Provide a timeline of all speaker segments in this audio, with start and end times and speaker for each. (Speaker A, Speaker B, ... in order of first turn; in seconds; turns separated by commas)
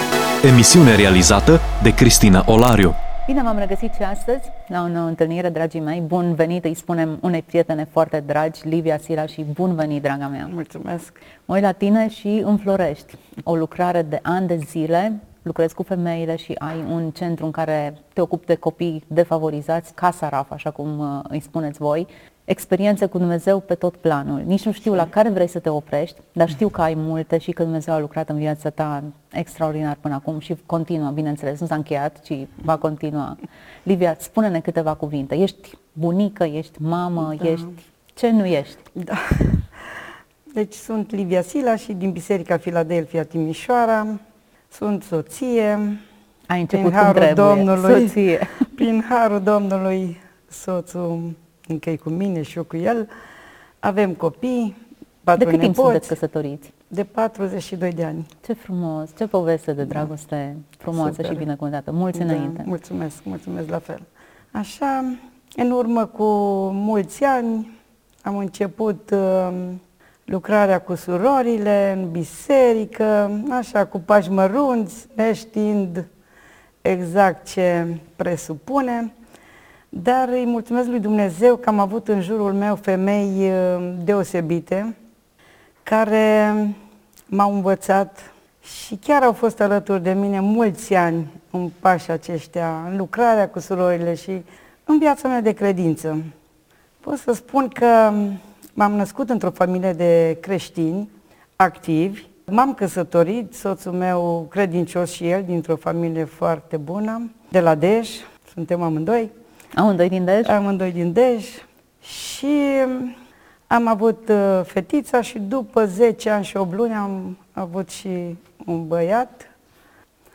Speaker A: 0.4-3.0, Speaker B: 3.3-10.5, Speaker C: 10.5-11.2, Speaker B: 11.5-38.8, Speaker C: 37.3-37.7, Speaker C: 39.0-39.7, Speaker C: 40.5-46.0, Speaker B: 46.5-48.8, Speaker C: 46.7-53.1, Speaker C: 53.8-56.1, Speaker B: 55.4-56.7, Speaker C: 56.9-58.3, Speaker B: 58.4-62.7, Speaker C: 60.9-61.5, Speaker C: 62.1-67.7, Speaker C: 68.2-76.1, Speaker C: 76.8-79.1, Speaker C: 79.9-84.9, Speaker C: 85.8-86.8, Speaker C: 87.3-96.3, Speaker C: 97.0-109.3, Speaker B: 109.8-110.5, Speaker C: 110.4-113.2, Speaker C: 113.7-119.5